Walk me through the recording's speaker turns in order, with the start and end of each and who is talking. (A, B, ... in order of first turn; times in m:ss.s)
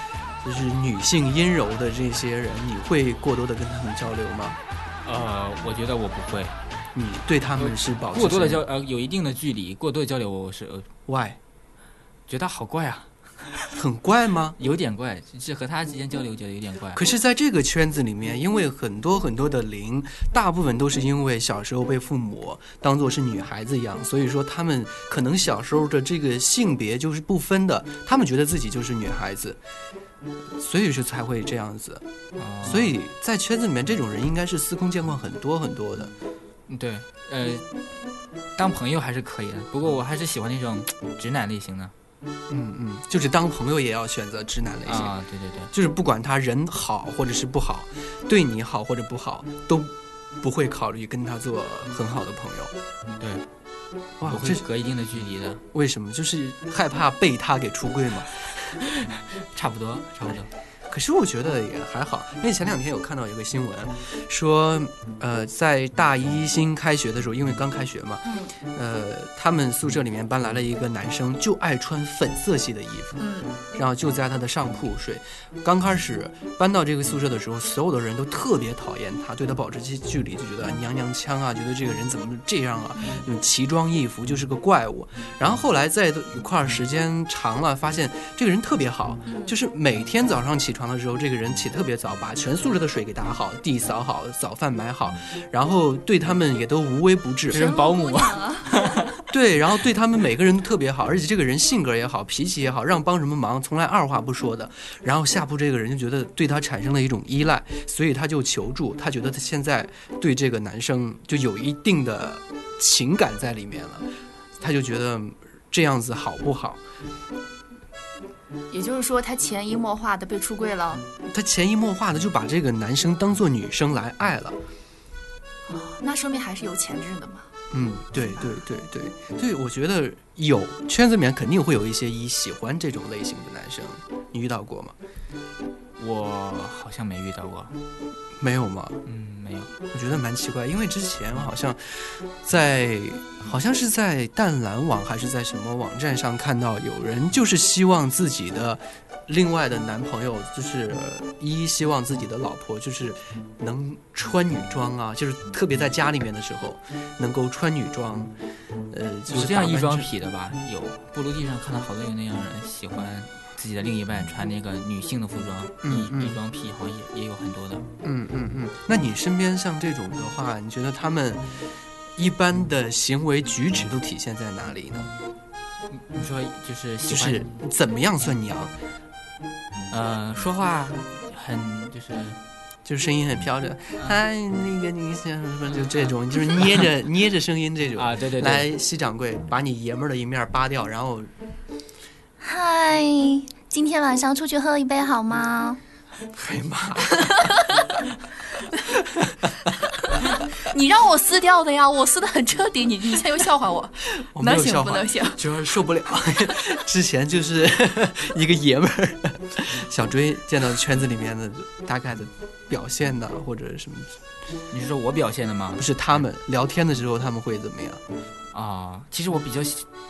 0:00.4-0:04.6 A
0:05.0-0:06.6 B
0:07.0-0:08.6 A
0:07.6-0:10.9 B
0:11.1-0:11.4 A
0:12.3-0:13.6 B
0:13.7-0:14.6 A
0:14.6-0:17.0 B
0:17.0-0:29.6 A
0:30.6-0:32.0 A
0:32.4-0:33.0 B
0:32.6-0:36.1 A
0:36.7-0:37.6 B
0:38.6-0:41.9 B
0:42.5-0:45.1 A
0:44.9-0:45.7 B
0:45.7-0:52.7 A
0:53.2-0:53.4 B
0:54.2-0:54.6 A
0:54.3-0:55.6 B
0:55.7-0:58.5 A
0:58.8-1:00.5 B
1:00.9-1:13.2 A
1:08.2-1:08.6 C
1:13.2-1:13.6 C
1:13.7-1:37.7 A
1:29.3-1:29.6 C
1:37.5-1:38.9 B
1:37.5-1:39.1 C
1:39.3-1:54.1 A
1:54.6-1:56.8 A
1:58.7-2:01.0 C
2:01.3-2:04.6 A
2:05.7-2:07.5 C
2:07.7-2:15.0 A
2:16.0-2:17.8 B
2:18.4-2:19.0 A
2:19.0-2:19.7 B
2:19.9-2:38.3 A
2:38.9-2:40.1 A
2:39.3-2:47.9 B
2:45.8-2:46.4 A
2:48.0-2:55.1 A
2:55.9-2:57.5 B
2:57.1-2:58.7 A
2:59.9-3:02.4 B
3:02.8-3:11.3 A
3:05.7-3:06.9 B
3:08.0-3:08.7 B
3:12.4-3:15.8 C
3:16.3-3:17.5 A
3:17.2-3:18.0 C
3:18.9-3:19.5 A
3:19.9-3:25.4 C
3:24.2-3:34.2 A
3:34.7-3:36.3 B
3:35.8-3:38.0 A
3:38.5-3:39.9 B